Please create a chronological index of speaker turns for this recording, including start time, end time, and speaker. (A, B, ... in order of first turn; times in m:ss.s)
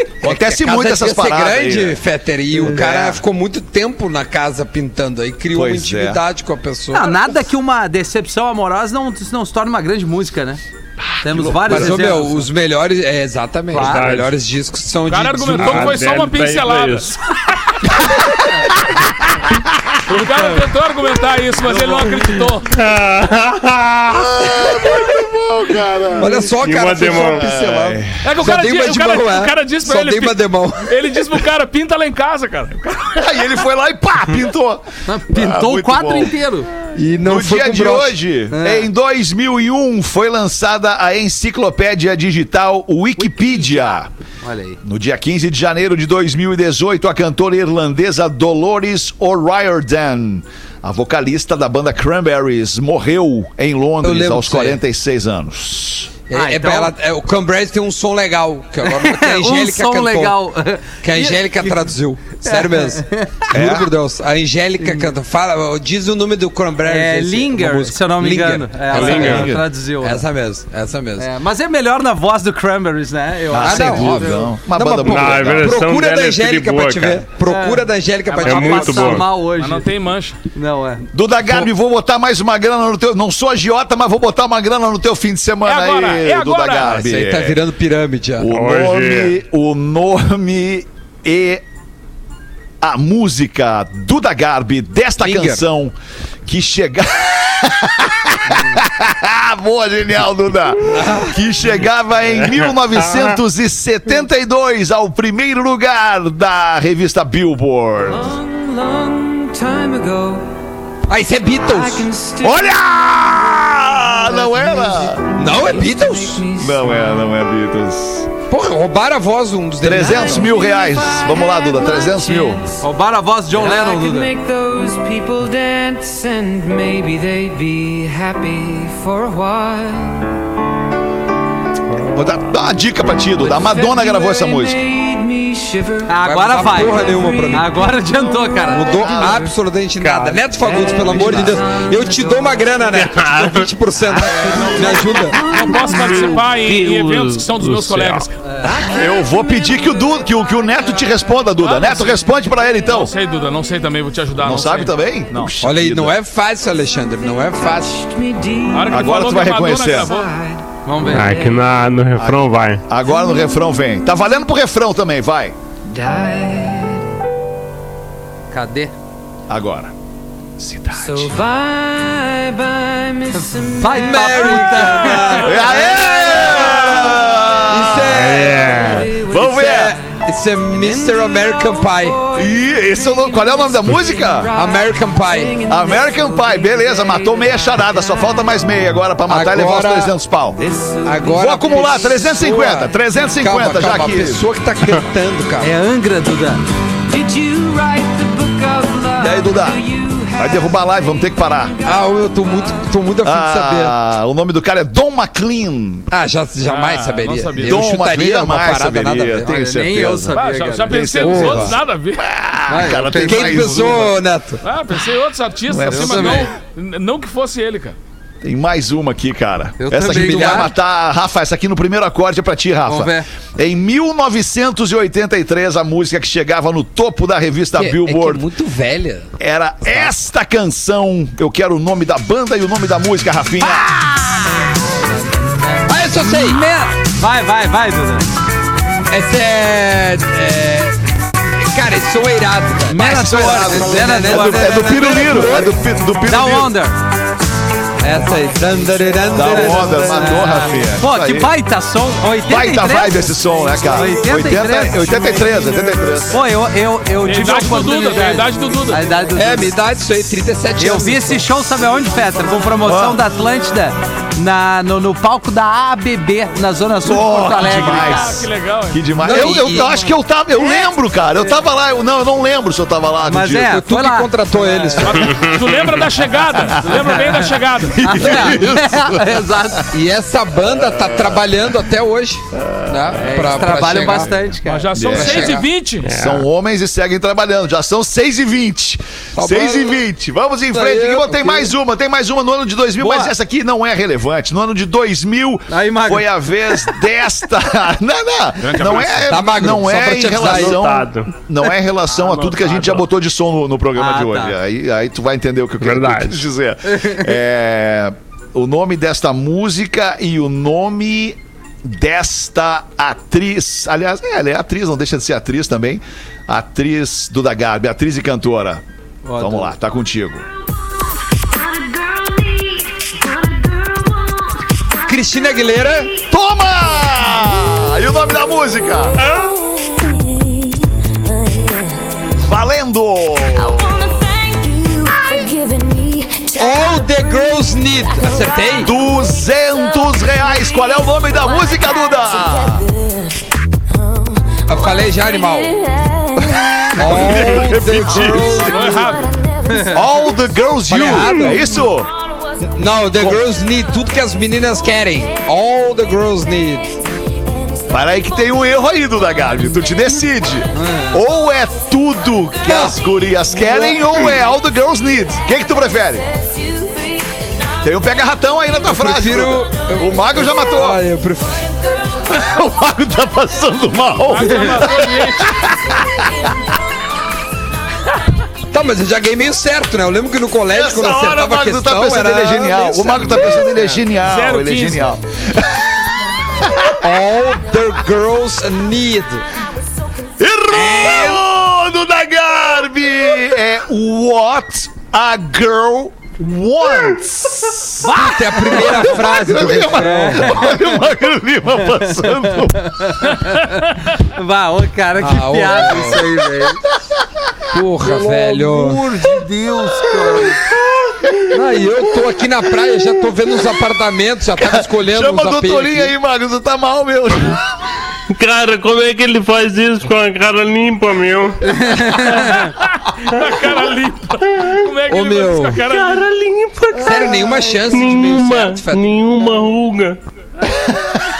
0:00.2-0:02.0 A
0:00.2-0:07.3 B
0:02.5-0:03.2 C
0:05.5-0:06.2 A
0:06.9-0:10.6 C
0:11.2-0:12.4 C
0:11.2-0:12.1 A
0:11.6-0:16.1 B
0:13.7-0:14.1 C
0:13.7-0:14.3 D
0:15.1-0:17.7 E
0:15.4-0:17.2 D
0:20.1-0:22.7 E
0:21.7-0:22.1 C
0:22.7-0:24.3 D
0:24.2-0:28.2 A
0:26.2-0:31.1 B
0:26.5-0:27.4 D
0:28.2-0:33.4 E
0:33.1-0:36.4 A
0:35.1-0:36.7 C
0:36.9-0:38.2 B
0:37.2-0:44.1 A
0:38.5-0:38.9 C
0:43.2-0:44.8 C
0:44.8-0:56.1 A
0:54.0-0:54.8 B
0:56.3-1:00.4 B
0:56.3-0:56.9 C
0:58.8-1:01.9 C
1:00.9-1:11.3 B
1:02.4-1:03.4 C
1:03.5-1:03.9 A
1:04.8-1:05.1 C
1:06.8-1:10.2 C
1:08.9-1:09.6 A
1:08.9-1:09.5 D
1:11.2-1:14.5 C
1:13.5-1:15.8 A
1:13.5-1:19.2 B
1:15.0-1:17.2 D
1:17.4-1:17.9 C
1:18.3-1:18.8 E
1:18.4-1:19.9 C
1:18.4-1:19.3 D
1:19.4-1:20.4 E
1:20.5-1:21.0 C
1:21.1-1:27.6 A
1:25.6-1:27.0 E
1:26.8-1:28.5 B
1:28.4-1:31.6 A
1:28.5-1:29.4 D
1:32.8-1:35.9 A
1:35.2-1:35.7 B
1:36.4-1:48.3 A
1:40.8-1:41.4 B
1:42.5-1:43.3 D
1:48.0-1:50.4 F
1:51.1-1:52.1 B
1:51.6-1:57.3 F
1:52.4-1:55.2 A
1:55.4-1:56.5 B
1:56.5-1:58.3 A
1:58.5-2:00.5 B
1:59.8-2:02.6 A
1:59.9-2:02.8 F
2:02.8-2:04.3 C
2:03.5-2:10.3 F
2:12.1-2:14.8 A
2:13.4-2:19.6 F
2:16.1-2:19.0 C
2:16.2-2:17.7 B
2:18.7-2:25.4 B
2:19.0-2:19.3 A
2:20.0-2:20.4 D
2:20.5-2:22.9 F
2:21.1-2:21.5 A
2:22.9-2:23.7 D
2:24.0-2:26.4 F
2:25.4-2:28.4 E
2:25.9-2:28.3 D
2:28.6-2:31.2 F
2:28.9-2:33.1 A
2:31.6-2:32.3 E
2:32.8-2:35.5 E
2:34.4-2:36.1 A
2:35.6-2:38.0 B
2:37.3-2:41.7 F
2:38.7-2:40.3 E
2:38.9-2:40.1 A
2:40.8-2:41.6 C
2:41.1-2:42.8 D
2:42.2-2:45.5 A
2:43.1-2:43.5 F
2:45.9-2:47.1 F
2:48.5-2:48.9 C
2:49.5-2:49.9 A
2:50.6-2:51.3 A
2:50.9-2:57.4 F
2:53.3-2:55.5 C
2:53.9-2:56.5 B
2:55.4-2:58.4 A
2:57.7-2:58.9 B
2:58.1-2:59.1 D
2:58.3-3:08.6 F
2:59.2-3:00.0 A
2:59.5-3:02.2 B
3:02.3-3:04.5 A
3:04.5-3:05.6 B
3:05.7-3:10.6 A
3:09.2-3:10.1 B
3:10.6-3:12.3 F
3:11.0-3:15.7 B
3:11.3-3:14.4 A
3:15.6-3:16.6 C
3:17.1-3:21.2 F
3:19.2-3:19.8 A
3:20.4-3:21.7 A
3:21.8-3:24.0 B
3:21.9-3:22.9 F
3:23.2-3:26.1 A
3:26.1-3:29.6 B
3:26.6-3:27.9 E
3:27.6-3:34.2 A
3:29.4-3:31.1 C
3:30.3-3:32.2 E
3:31.2-3:31.8 B
3:32.7-3:34.0 C
3:33.1-3:34.6 B
3:34.6-3:38.0 E
3:35.7-3:36.5 A
3:35.9-3:36.5 C
3:38.4-3:48.4 A
3:39.8-3:40.7 C
3:40.0-3:40.7 B
3:42.8-3:43.3 C
3:47.7-3:49.3 B
3:49.4-3:53.9 A
3:53.6-3:54.5 B
3:55.8-3:56.6 B
3:56.1-3:58.3 C
3:59.1-4:05.8 B
4:02.9-4:05.2 C
4:03.0-4:06.7 A
4:06.2-4:07.0 C
4:08.0-4:10.8 B
4:09.3-4:11.5 A
4:09.4-4:15.5 C
4:12.4-4:16.4 A
4:16.3-4:19.7 C
4:17.2-4:19.0 E
4:19.3-4:21.5 B
4:20.8-4:28.3 C
4:22.8-4:23.2 A
4:27.0-4:33.8 A
4:27.6-4:29.0 E
4:29.2-4:29.9 B
4:29.2-4:30.0 C
4:33.2-4:35.2 C
4:33.6-4:35.3 B
4:35.0-4:38.6 E
4:35.3-4:35.8 D
4:36.7-4:37.4 A
4:37.9-4:39.5 A
4:38.0-4:39.9 C
4:39.9-4:44.5 B
4:42.7-4:43.1 A
4:43.2-4:45.0 C
4:44.6-4:46.1 E
4:44.9-5:18.8 A
4:45.1-4:45.7 B
4:46.0-4:46.5 D
4:49.4-4:50.0 B
4:50.7-4:51.6 B
4:50.7-4:51.5 C
4:53.0-4:53.3 C
4:55.7-4:56.9 C
4:58.6-4:59.7 E
4:59.2-5:00.8 B
5:00.3-5:01.3 D
5:03.9-5:04.6 C
5:05.8-5:06.5 D
5:19.2-5:19.7 C
5:19.4-5:20.4 A
5:21.7-5:24.3 F
5:25.0-5:26.2 B
5:26.2-5:29.2 A
5:32.4-5:34.1 A
5:36.4-5:38.9 B
5:38.8-5:42.9 A
5:44.6-5:45.9 B
5:46.4-5:49.1 A
5:46.9-5:49.0 B
5:48.6-5:49.3 E
5:49.8-5:52.1 A
5:50.9-5:51.9 B
5:52.6-5:57.0 B
5:57.9-6:06.3 A
6:00.8-6:01.2 B
6:02.6-6:03.0 B
6:03.5-6:04.3 B
6:07.8-6:11.0 A
6:08.8-6:11.8 B
6:12.3-6:16.5 A
6:14.3-6:15.6 E
6:18.7-6:24.0 B
6:20.7-6:25.8 A
6:24.2-6:25.1 E
6:26.6-6:27.0 A
6:26.9-6:29.4 B
6:30.4-6:38.1 A
6:30.7-6:31.4 B
6:38.0-6:40.8 C
6:38.0-6:40.7 B
6:38.7-6:43.3 A
6:42.4-6:46.8 C
6:45.2-6:46.3 B
6:47.7-6:49.0 B
6:48.0-6:50.6 C
6:50.0-6:51.6 A
6:51.5-6:56.2 B
6:54.6-6:57.7 A
6:58.3-7:02.6 D
7:01.6-7:02.7 C
7:02.4-7:06.3 E
7:05.1-7:05.8 B
7:05.9-7:10.2 D
7:07.0-7:09.2 B